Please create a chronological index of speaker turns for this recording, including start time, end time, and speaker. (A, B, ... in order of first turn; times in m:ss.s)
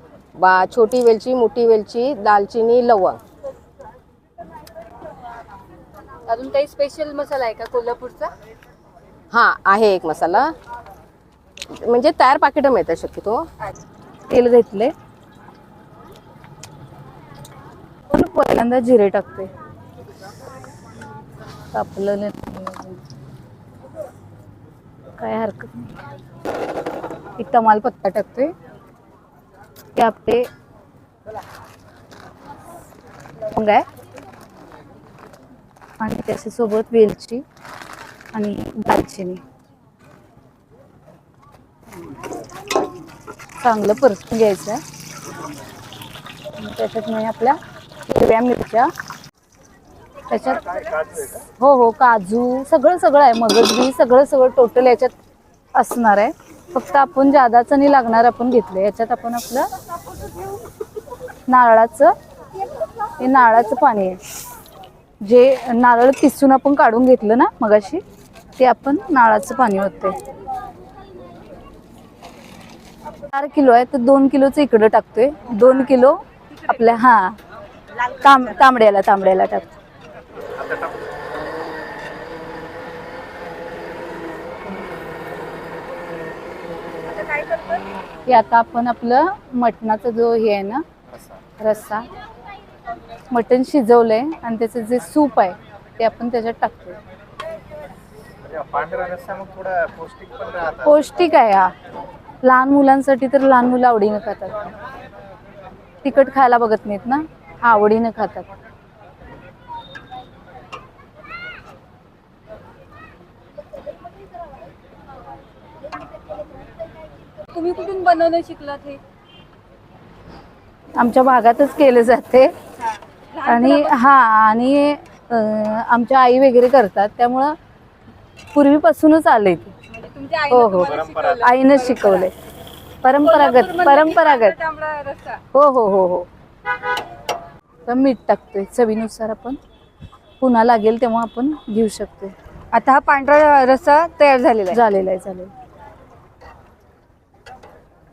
0:00.4-0:03.2 A
0:06.3-0:08.3 B
0:09.3-0:10.5 A
0:11.7-0:13.5 A
0:14.3-0:14.9 C
0:18.1-0:19.5 C
0:21.7-0:23.0 C
0:25.2-0:26.0 C
0:27.4-0:28.5 C
0:30.0-0:30.5 C
0:33.5-0:33.9 C
0:36.0-0:37.4 C
0:38.3-0:39.4 C
0:43.6-0:44.8 C
0:46.6-0:48.9 C
0:50.3-0:50.6 C
0:50.3-0:50.9 B
0:50.6-0:51.4 D
0:51.6-0:55.1 C
0:55.8-0:59.7 C
1:01.5-1:02.2 C
1:03.2-1:04.2 C
1:05.2-1:08.0 C
1:08.6-1:10.2 C
1:13.3-1:17.4 C
1:18.0-1:19.8 C
1:20.6-1:21.0 D
1:27.1-1:27.9 B
1:28.3-1:30.8 C
1:31.6-1:32.1 C
1:33.3-1:37.0 C
1:38.4-1:41.0 D
1:40.8-1:41.7 C
1:42.4-1:44.7 C
1:46.0-1:48.5 C
1:57.5-1:59.0 B
2:01.0-2:02.5 C
2:02.8-2:04.1 B
2:03.5-2:07.6 C
2:08.5-2:09.7 C
2:09.9-2:12.3 B
2:10.5-2:12.3 C
2:10.8-2:11.4 D
2:13.0-2:14.6 C
2:13.2-2:15.4 B
2:15.5-2:16.3 C
2:17.9-2:19.6 C
2:20.4-2:22.3 C
2:22.7-2:24.8 B
2:24.7-2:25.5 C